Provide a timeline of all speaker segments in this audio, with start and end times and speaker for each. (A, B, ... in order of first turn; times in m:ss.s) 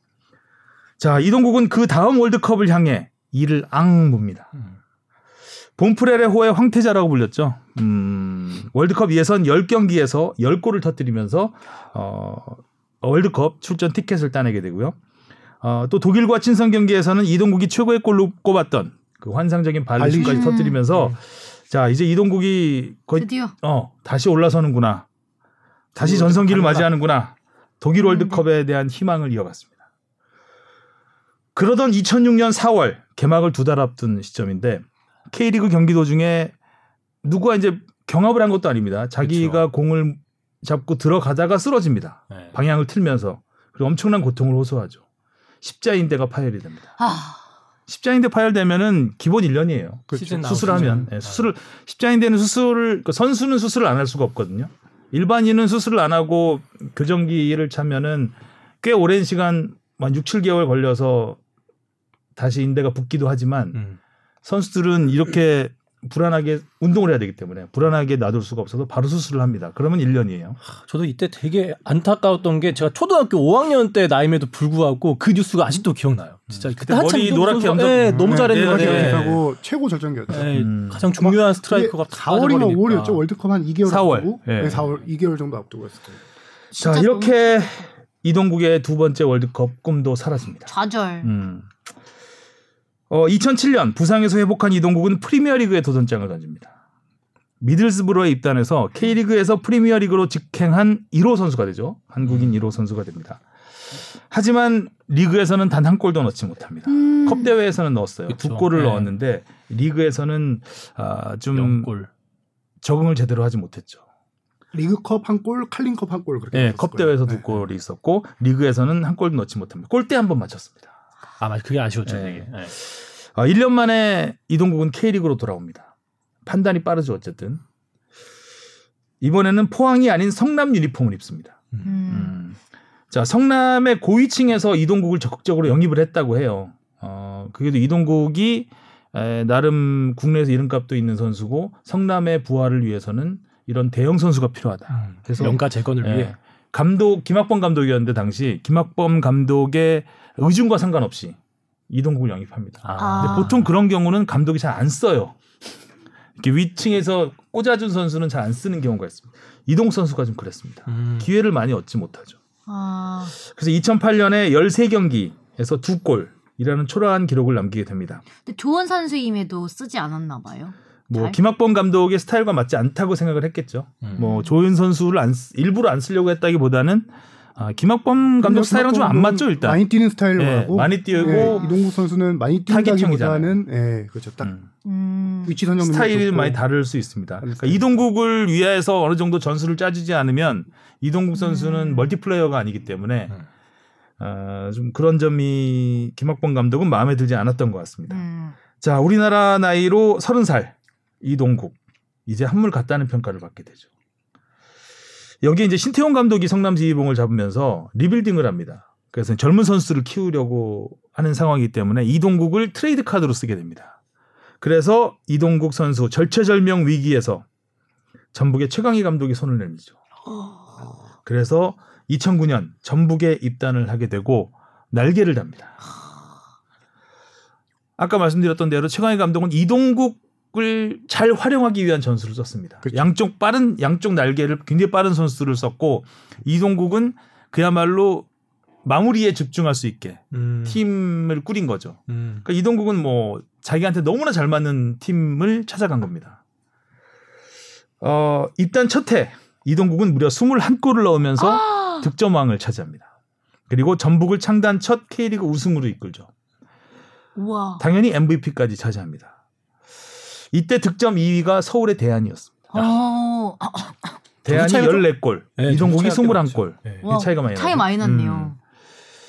0:01.0-0:04.5 A
0:05.8-0:14.9 A
0:15.6-0:25.0 A
0:20.0-0:20.6 B
0:20.2-0:20.8 C
0:20.9-0:21.2 D
0:23.2-0:23.5 C
0:25.9-0:29.7 A
0:26.0-0:26.8 D
0:26.1-0:26.8 B
0:28.0-0:28.4 C
0:31.5-0:36.5 A
0:37.2-0:45.0 A
0:39.2-0:39.6 D
0:45.6-0:46.9 A
0:47.0-0:47.4 C
0:47.9-1:01.4 A
0:50.1-0:51.1 B
0:50.1-0:51.5 D
1:02.4-1:03.8 A
1:04.4-1:10.6 A
1:10.6-1:19.4 D
1:16.5-1:19.4 A
1:18.2-1:26.2 B
1:20.3-1:23.2 D
1:20.5-1:21.1 A
1:23.8-1:24.8 A
1:26.7-1:27.8 C
1:26.8-1:31.7 A
1:30.7-1:31.3 C
1:33.1-1:36.7 A
1:37.6-1:43.4 A
1:42.2-1:42.6 D
1:44.3-1:51.9 A
1:46.9-1:47.5 C
1:48.3-1:49.1 D
1:51.5-1:52.1 D
1:52.8-1:54.0 A
1:54.7-1:57.4 B
1:56.5-1:56.9 D
1:56.7-2:00.9 A
2:01.4-2:02.7 D
2:02.0-2:05.9 A
2:06.4-2:07.6 A
2:09.2-2:12.6 A
2:11.8-2:12.4 C
2:13.1-2:31.4 A
2:24.9-2:26.4 D
2:31.9-2:35.4 A
2:32.8-2:33.7 D
2:33.0-2:33.5 C
2:36.4-2:42.4 A
2:40.9-2:41.3 D
2:42.7-2:43.3 C
2:43.4-2:48.2 A
2:48.4-2:51.4 C
2:51.1-2:59.8 A
2:54.2-2:54.6 C
2:58.4-3:04.5 B
3:00.4-3:01.6 A
3:01.1-3:01.7 C
3:02.7-3:03.6 A
3:04.4-3:04.7 A
3:04.8-3:05.6 C
3:05.4-3:06.6 B
3:05.8-3:13.3 A
3:07.4-3:07.9 B
3:11.3-3:12.1 C
3:14.2-3:18.2 A
3:18.1-3:18.6 C
3:18.8-3:21.8 A
3:22.3-3:23.8 A
3:25.4-3:34.0 A
3:34.6-3:37.4 A
3:38.3-3:40.0 A
3:40.3-3:40.8 C
3:41.2-3:45.8 A
3:48.0-3:58.2 A
3:52.8-3:53.1 B
3:58.8-4:06.4 A
4:00.3-4:00.8 D
4:02.1-4:02.4 D
4:08.0-4:13.0 A
4:11.4-4:12.1 C
4:13.7-4:16.3 A
4:17.4-4:17.8 C
4:17.8-4:19.3 A
4:20.5-4:22.7 A
4:22.7-4:24.2 C
4:24.4-4:28.5 A
4:24.5-4:25.0 D
4:25.6-4:27.0 D
4:27.0-4:28.6 C